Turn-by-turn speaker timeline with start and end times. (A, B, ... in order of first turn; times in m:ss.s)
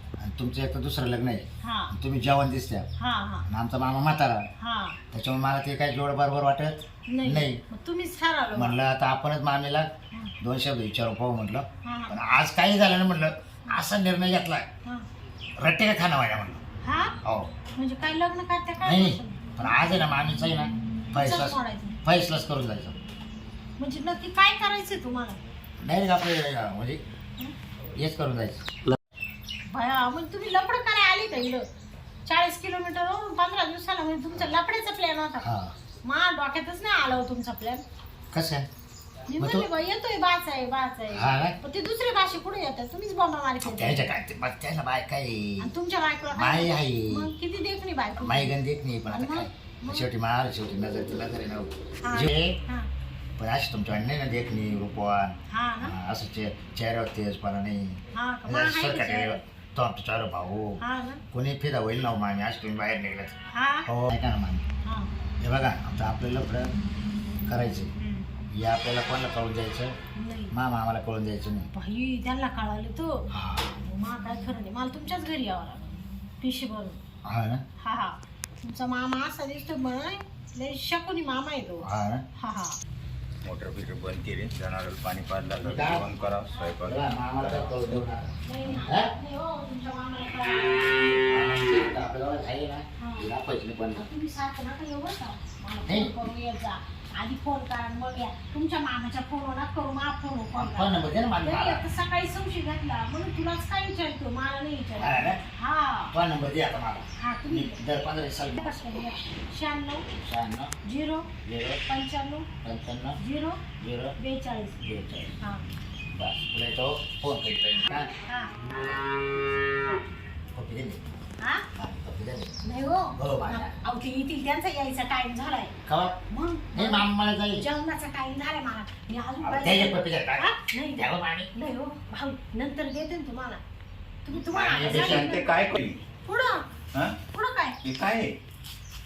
0:00.2-0:02.9 A
0:01.6-0:01.9 B
0:03.0-0:03.4 B
0:03.5-0:04.5 A
0:04.6-0:05.0 B
0:05.1-0:07.6 A
0:07.1-0:08.8 B
0:08.5-0:09.9 A
0:10.4-0:14.6 A
0:11.8-0:12.1 B
0:15.6-0:16.6 A
0:16.8-0:17.1 B
0:17.2-0:17.5 A
0:17.8-0:19.4 B
0:18.8-0:23.0 A
0:21.1-0:22.0 B
0:23.8-0:25.4 B
0:25.8-0:27.0 A
0:28.0-0:28.6 A
0:29.7-0:31.6 B
0:32.2-0:35.4 B
0:35.4-0:35.7 A
0:36.0-0:37.8 B
0:38.3-0:38.6 A
0:39.3-0:44.1 B
0:39.4-0:39.6 A
0:41.1-0:41.5 A
0:43.6-0:45.7 A
0:45.6-0:48.5 B
0:46.3-0:47.3 A
0:48.2-0:52.6 A
0:49.1-0:50.1 B
0:52.0-0:52.9 B
0:53.4-1:00.8 A
0:55.5-0:55.9 B
0:58.1-0:59.4 B
1:00.8-1:01.2 B
1:01.3-1:04.6 A
1:03.5-1:03.9 B
1:05.4-1:06.7 A
1:07.4-1:07.9 A
1:08.0-1:08.3 B
1:08.6-1:09.9 A
1:10.2-1:10.5 B
1:10.5-1:11.7 A
1:11.7-1:13.2 B
1:13.3-1:13.8 A
1:13.8-1:17.0 B
1:17.2-1:17.6 A
1:17.8-1:21.8 B
1:21.8-1:22.2 A
1:22.4-1:22.8 B
1:23.4-1:27.7 C
1:25.6-1:26.0 A
1:26.8-1:29.1 A
1:28.4-1:31.2 B
1:31.3-1:34.1 A
1:33.0-1:33.3 B
1:34.0-1:46.1 B
1:35.8-1:36.1 A
1:40.5-1:41.8 A
1:45.0-1:45.4 A
1:46.1-1:49.0 A
1:47.2-1:47.8 B
1:48.5-1:50.0 B
1:50.1-1:50.7 A
1:50.8-1:51.3 B
1:51.4-1:51.8 A
1:51.8-1:52.5 B
1:52.6-1:53.2 A
1:53.2-1:53.6 B
1:53.8-1:54.1 A
1:54.2-1:54.8 B
1:54.8-1:55.3 A
1:56.1-1:58.1 A
1:57.8-1:58.5 B
2:00.5-2:01.0 A
2:01.7-2:02.6 A
2:02.6-2:05.7 B
2:03.2-2:03.7 A
2:05.8-2:06.2 A
2:06.3-2:07.0 B
2:06.7-2:07.6 A
2:07.6-2:13.6 B
2:09.4-2:11.5 A
2:14.2-2:15.5 B
2:14.5-2:15.3 A
2:14.8-2:16.0 C
2:16.2-2:16.6 B
2:17.3-2:17.8 B
2:17.8-2:18.4 C